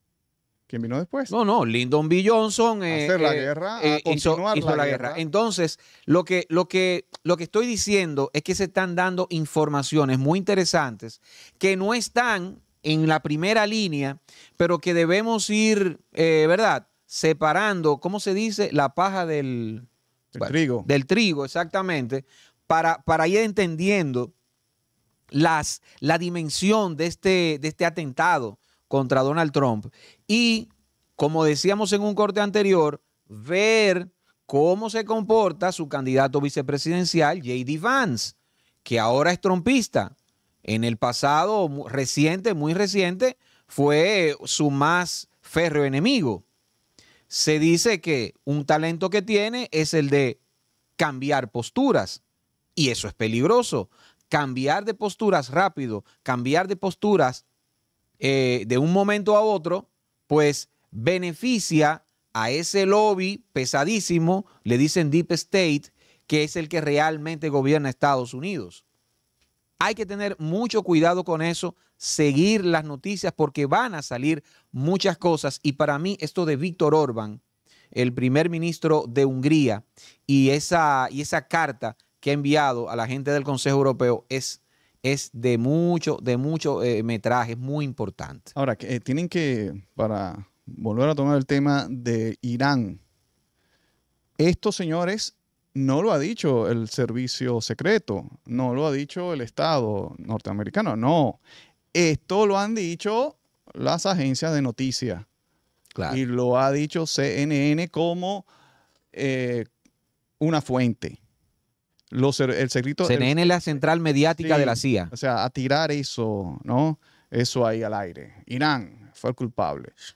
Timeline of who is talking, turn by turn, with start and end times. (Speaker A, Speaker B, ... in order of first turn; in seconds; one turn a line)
Speaker A: 0.7-1.3
Speaker B: 1.3-19.9
Speaker A: 2.9-5.2
Speaker A: 20.3-20.9
Speaker B: 20.4-24.3
Speaker B: 25.3-46.4
Speaker B: 47.3-50.4
Speaker B: 51.0-52.2
Speaker B: 52.8-57.4
Speaker B: 58.2-68.8
Speaker B: 69.8-77.4
Speaker B: 77.9-88.5
Speaker A: 88.6-93.0
Speaker A: 94.4-101.4
Speaker A: 101.9-105.3
Speaker B: 106.0-106.2
Speaker A: 106.1-108.5
Speaker A: 109.1-109.7
Speaker A: 110.4-111.2
Speaker A: 112.1-113.5
Speaker B: 113.0-115.1
Speaker A: 114.4-120.0